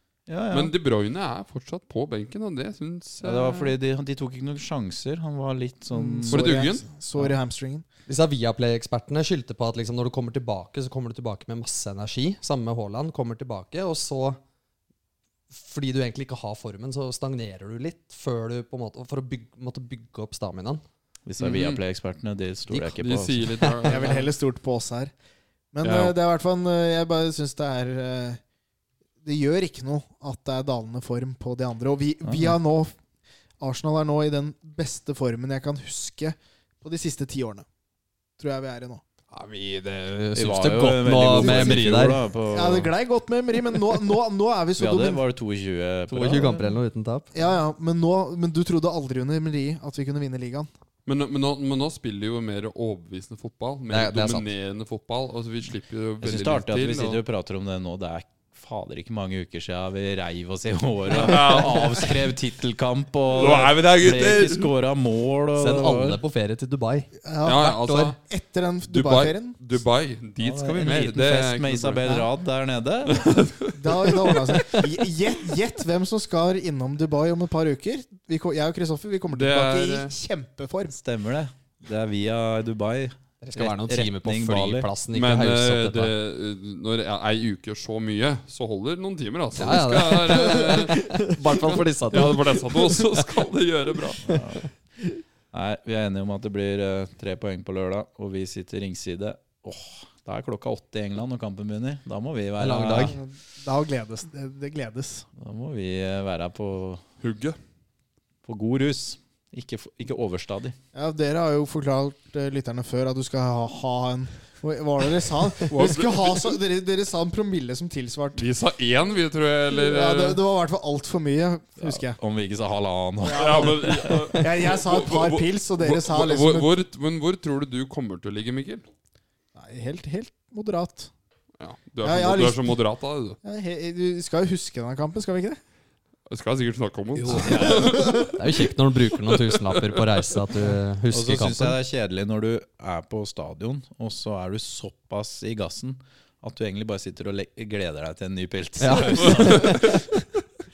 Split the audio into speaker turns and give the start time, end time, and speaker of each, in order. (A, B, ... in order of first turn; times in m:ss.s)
0:00.3-0:00.7 A
0:00.5-0:03.8 B
0:03.2-0:06.5 A
0:05.9-0:07.8 C
0:06.3-0:06.9 B
0:08.1-0:14.4 D
0:15.5-0:20.8 D
0:21.3-0:23.5 A
0:21.4-0:21.8 B
0:22.7-0:24.2 D
0:23.0-0:24.3 B
0:23.9-0:25.1 C
0:25.7-0:28.4 C
0:25.8-0:26.2 B
0:29.2-0:32.9 C
0:32.2-0:32.6 A
0:33.6-0:37.7 C
0:38.4-0:39.0 C
0:39.3-0:42.2 D
0:40.3-0:42.9 A
0:41.4-0:42.0 C
0:42.5-0:45.2 C
0:44.8-0:46.8 A
0:46.1-0:47.3 D
0:47.3-0:50.7 C
0:51.1-0:57.2 B
0:53.9-0:54.5 D
0:56.2-1:06.2 A
1:01.1-1:02.2 B
1:03.3-1:04.7 B
1:05.6-1:07.1 D
1:07.2-1:09.6 C
1:07.4-1:08.2 B
1:08.9-1:12.0 B
1:10.4-1:13.4 A
1:13.1-1:14.3 B
1:13.7-1:21.0 C
1:19.3-1:20.1 B
1:20.9-1:24.9 A
1:23.4-1:26.1 D
1:25.1-1:34.2 B
1:29.6-1:33.1 D
1:34.2-1:34.7 A
1:34.3-1:34.6 D
1:35.5-1:43.2 A
1:42.6-1:43.2 D
1:43.1-1:45.3 C
1:45.4-1:47.0 A
1:47.2-1:47.6 B
1:48.4-1:50.8 A
1:50.9-1:58.4 C
1:55.7-1:56.6 B
1:58.4-2:00.4 B
1:59.7-2:02.2 C
2:01.8-2:04.2 A
2:03.2-2:06.7 C
2:03.3-2:08.8 B
2:09.6-2:11.1 C
2:11.6-2:13.4 B
2:12.0-2:12.8 C
2:13.4-2:15.6 C
2:16.3-2:18.4 B
2:17.2-2:18.0 A
2:17.3-2:21.8 D
2:17.4-2:18.3 C
2:19.3-2:20.4 B
2:21.1-2:30.0 A
2:28.8-2:30.2 D
2:29.2-2:30.0 B